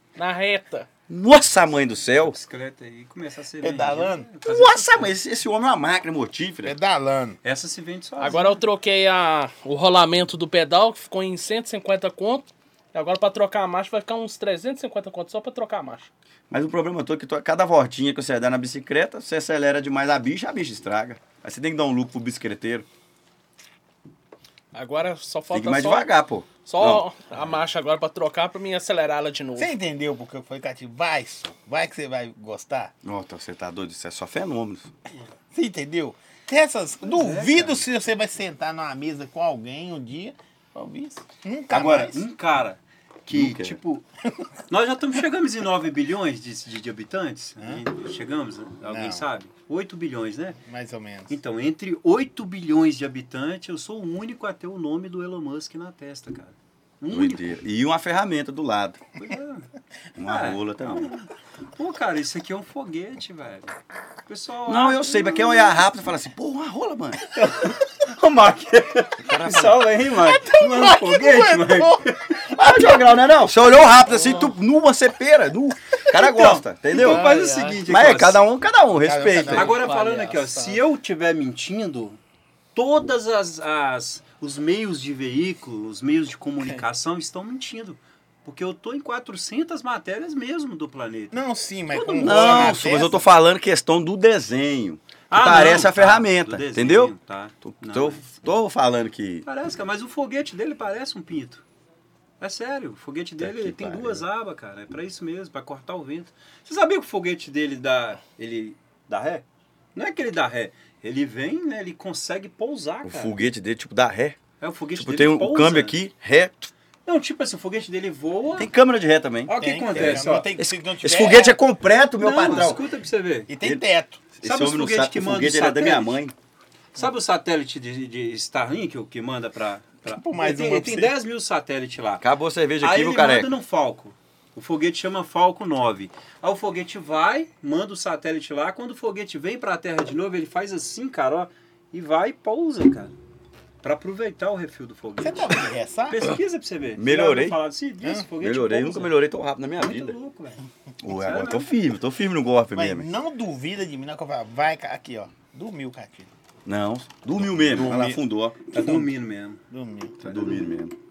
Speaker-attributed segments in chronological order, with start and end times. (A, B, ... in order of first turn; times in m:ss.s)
0:00.2-0:00.9 A
0:01.1-0:02.4 B
0:02.2-0:05.1 C
0:03.6-0:04.3 D
0:04.4-0:06.8 B
0:06.6-0:07.4 D
0:07.4-0:08.6 C
0:08.2-0:16.1 A
0:16.5-0:22.8 B
0:24.7-0:26.1 A
0:25.5-0:27.1 B
0:26.6-0:29.7 A
0:29.6-0:32.9 D
0:33.0-0:34.9 B
0:35.5-0:42.2 D
0:37.0-0:37.9 C
0:41.7-0:44.0 C
0:43.3-0:43.8 B
0:44.7-0:50.6 C
0:48.8-0:49.3 D
0:50.6-0:51.3 D
0:51.3-0:57.6 C
0:57.1-0:59.0 B
0:59.2-0:59.7 C
1:00.2-1:01.1 B
1:00.2-1:05.8 C
1:04.6-1:07.3 B
1:07.3-1:12.5 C
1:09.2-1:09.9 B
1:10.1-1:12.1 D
1:12.4-1:17.3 B
1:14.2-1:14.5 A
1:16.0-1:18.4 C
1:16.9-1:17.8 A
1:17.8-1:19.8 B
1:18.9-1:19.8 D
1:19.5-1:22.2 C
1:19.5-1:20.8 A
1:22.7-1:32.9 C
1:31.3-1:33.2 D
1:32.2-1:39.4 B
1:35.3-1:38.2 C
1:39.4-1:41.6 C
1:42.4-1:53.4 C
1:43.4-1:44.2 B
1:53.0-1:54.4 B
1:54.6-1:56.0 C
1:54.9-1:56.7 B
1:57.0-1:58.7 C
1:58.6-2:02.8 B
1:59.4-2:00.5 C
1:59.5-2:01.6 D
2:02.2-2:03.5 C
2:03.5-2:04.2 D
2:03.6-2:06.3 B
2:04.4-2:06.2 C
2:06.9-2:12.3 C
2:10.1-2:11.1 D
2:12.2-2:13.5 B
2:12.8-2:23.1 C
2:23.8-2:29.2 C
2:25.2-2:26.2 D
2:27.0-2:27.6 B
2:28.4-2:30.2 B
2:29.7-2:31.7 C
2:31.0-2:33.1 B
2:32.7-2:36.3 D
2:36.6-2:39.0 B
2:37.4-2:38.2 D
2:38.7-2:39.6 C
2:39.7-2:40.2 D
2:40.2-2:41.0 B
2:40.2-2:40.6 C